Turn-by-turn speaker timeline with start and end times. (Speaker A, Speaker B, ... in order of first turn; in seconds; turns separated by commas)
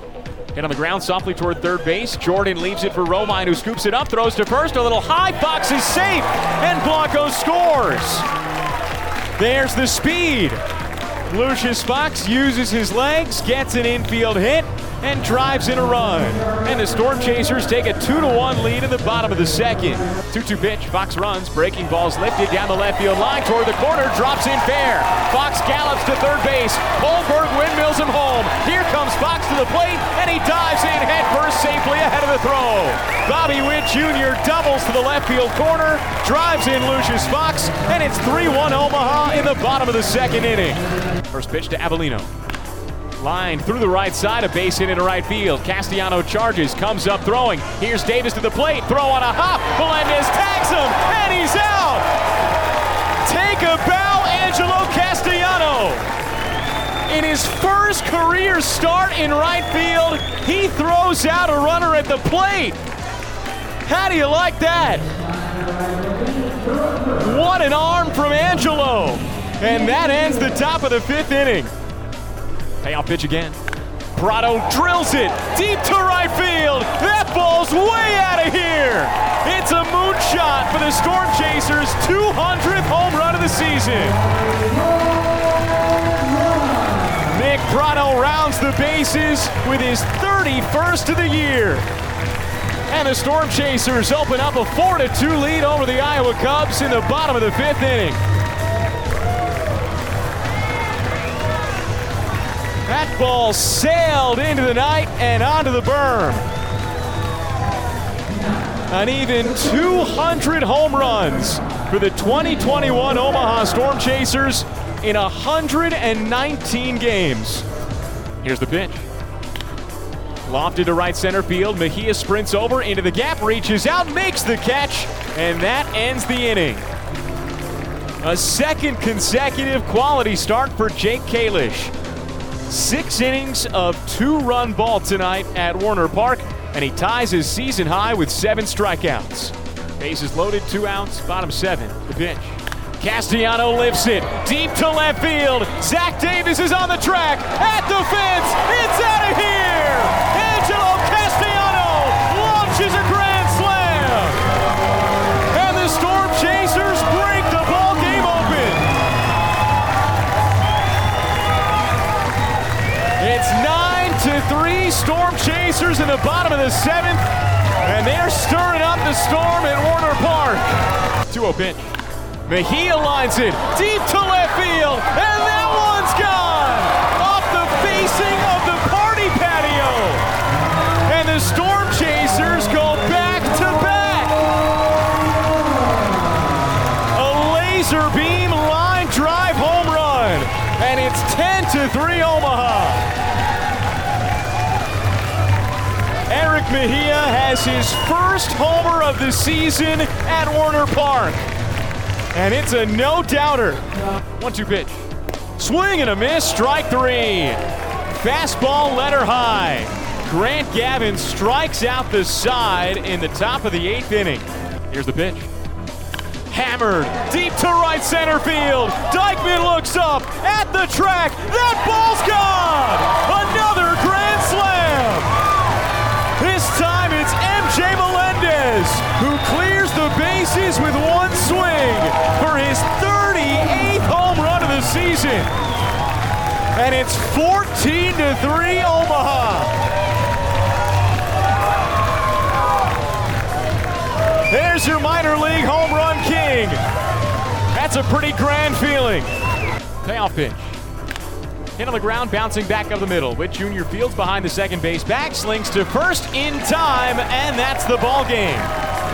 Speaker A: 0.5-8.3, Speaker A: 9.4-10.6, Speaker A: 11.3-42.3, Speaker A: 43.2-52.1, Speaker A: 53.2-56.1, Speaker A: 57.0-62.8, Speaker A: 63.8-65.1, Speaker A: 67.1-71.7, Speaker A: 72.8-73.6, Speaker A: 74.1-84.2, Speaker A: 87.2-91.9, Speaker A: 92.9-98.2, Speaker A: 102.8-106.5, Speaker A: 108.9-117.6, Speaker A: 118.4-119.0, Speaker A: 120.5-126.8, Speaker A: 128.2-131.9, Speaker A: 132.7-154.4, Speaker A: 155.5-158.9, Speaker A: 163.2-180.3, Speaker A: 181.0-184.5, Speaker A: 187.1-193.1, Speaker A: 196.3-201.4, Speaker A: 202.3-207.6, Speaker A: 208.2-215.5, Speaker A: 216.5-225.4, Speaker A: 226.3-235.5, Speaker A: 236.7-239.8, Speaker A: 244.5-246.8, Speaker A: 247.7-249.3, Speaker A: 250.0-250.8, Speaker A: 251.8-258.7